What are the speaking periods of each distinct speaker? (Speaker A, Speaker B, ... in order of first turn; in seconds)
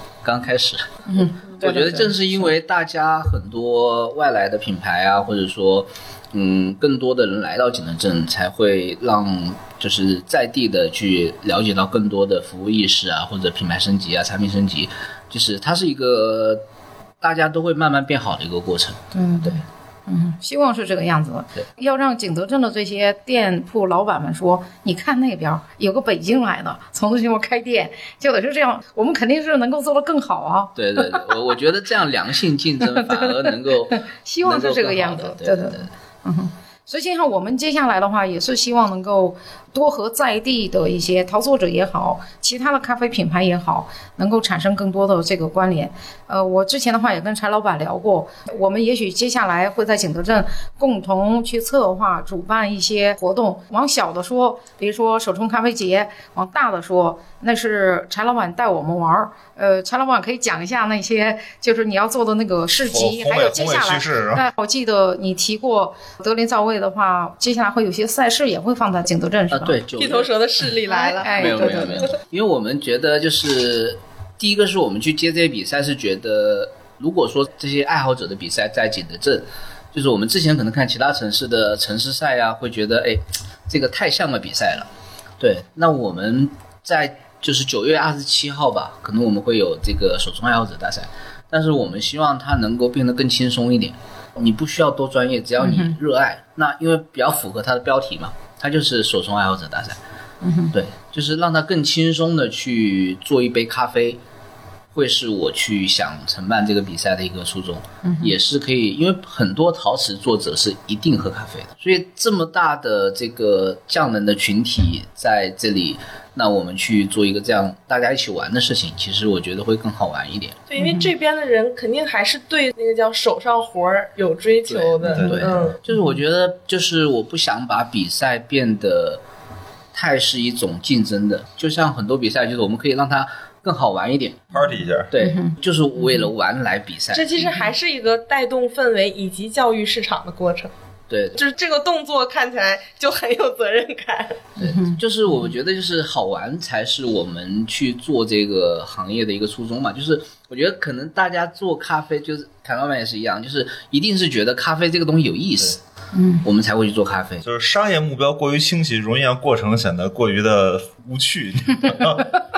Speaker A: 0.2-16.6, 17.2-19.6, 30.8-35.9, 69.5-70.3, 71.2-100.0, 100.7-104.2, 104.9-120.6, 124.7-129.2, 129.9-137.3, 141.1-141.4, 144.6-155.8, 156.4-157.4
Speaker B: 1.1-2.5, 19.1-31.3, 33.0-69.8, 70.9-72.1, 95.6-96.0, 100.4-100.8, 108.0-108.4, 120.8-121.1, 135.2-135.6, 144.6-145.0, 156.1-156.4
Speaker C: 62.9-64.4, 125.1-125.5, 134.5-135.1, 157.4-162.4
Speaker D: 70.0-72.1, 120.7-125.8, 137.1-140.7, 141.3-144.4